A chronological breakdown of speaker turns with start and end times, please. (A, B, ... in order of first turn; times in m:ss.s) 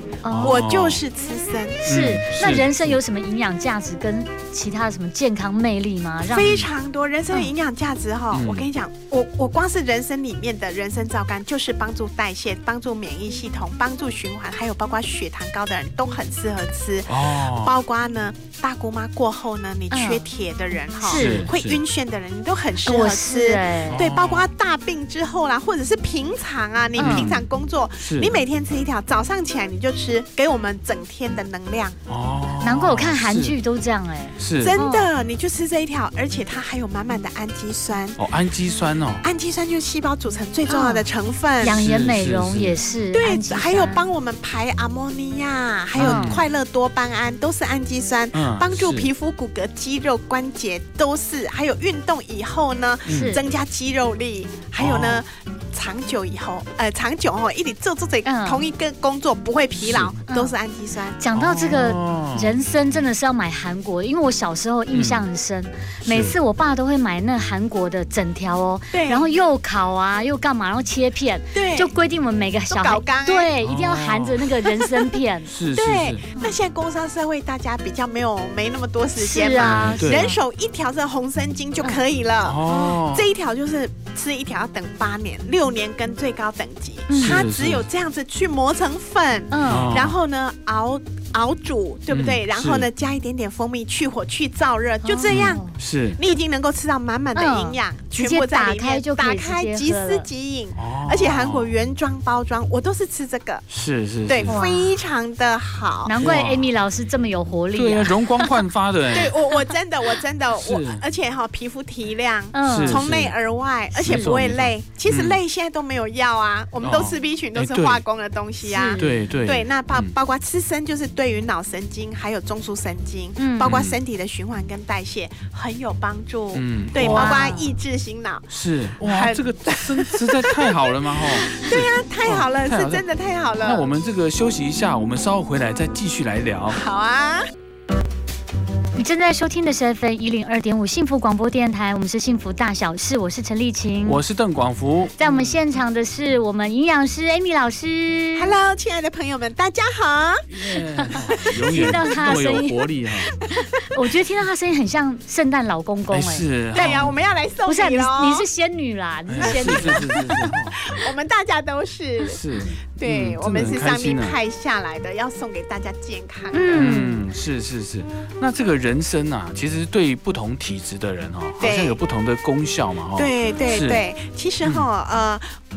0:00.2-0:00.6 A
0:00.3-0:01.0 B
0:00.4-0:01.8 C
0:01.8-0:06.6 A
0:01.9-0:03.0 B
0:06.3-0:32.0 C
0:08.3-0:08.7 B
0:17.1-0:17.7 B
0:19.9-0:20.2 A
0:21.0-0:21.5 A
0:21.1-0:21.8 B
0:22.8-0:24.0 A
0:23.9-0:24.5 B
0:27.0-0:27.3 A
0:27.0-0:27.5 B
0:28.0-0:28.4 B
0:32.1-0:33.6 B
0:32.6-0:35.1 A
0:34.4-0:34.8 B
0:34.6-0:38.2 C
0:38.2-0:39.2 B
0:39.2-0:41.8 C
0:40.7-0:41.1 A
0:41.6-0:44.0 A
0:41.7-0:42.8 B
0:43.1-1:01.2 C
0:46.0-0:46.5 B
0:46.0-0:46.4 A
0:48.3-0:49.1 B
0:53.1-0:53.4 A
0:53.1-0:53.4 B
0:54.8-0:55.2 B
0:58.2-0:58.6 A
0:59.8-1:00.1 B
1:00.3-1:00.6 A
1:01.2-1:15.5 A
1:01.3-1:02.6 B
1:04.9-1:05.2 B
1:06.0-1:06.4 B
1:08.9-1:09.3 C
1:11.5-1:11.9 C
1:12.7-1:13.5 C
1:13.6-1:14.5 B
1:14.8-1:15.1 C
1:15.5-1:16.2 B
1:15.7-1:35.6 C
1:19.2-1:20.4 A
1:19.6-1:20.3 B
1:22.4-1:23.3 B
1:27.1-1:27.4 A
1:27.2-1:27.8 B
1:29.5-1:29.9 A
1:29.7-1:30.2 B
1:32.1-1:32.9 B
1:35.0-1:35.8 A
1:35.3-1:36.2 B
1:36.2-1:43.6 C
1:37.4-1:40.3 A
1:40.8-1:41.7 B
1:43.7-1:44.6 B
1:44.3-1:46.2 C
1:44.5-1:45.0 A
1:46.0-1:48.6 A
1:46.2-1:46.7 B
1:47.7-1:49.4 B
1:49.1-2:13.9 C
1:50.6-1:51.0 B
1:52.5-1:53.0 A
1:52.7-1:53.4 B
1:53.9-1:55.4 B
1:54.0-1:54.3 A
1:56.8-1:58.0 B
1:58.6-1:59.2 A
1:59.0-2:00.2 B
2:03.4-2:03.7 A
2:03.6-2:04.0 B
2:06.5-2:07.4 B
2:07.0-2:07.7 A
2:08.5-2:13.0 B
2:13.6-2:16.8 B
2:16.7-2:17.4 C
2:19.0-2:24.2 A
2:24.0-2:25.6 B
2:25.2-2:28.6 A
2:28.4-2:30.5 C
2:30.5-2:33.3 B
2:30.9-2:32.9 A
2:31.2-2:32.1 C
2:33.3-2:33.9 C
2:33.4-2:37.0 A
2:36.1-2:37.2 B
2:36.7-2:38.5 C
2:37.7-2:40.2 A
2:39.3-2:40.9 B
2:39.4-2:42.4 C
2:42.2-2:44.4 B
2:43.0-2:46.9 C
2:46.5-2:47.2 A
2:46.7-2:54.0 B
2:51.6-2:52.0 C
2:53.2-2:55.4 C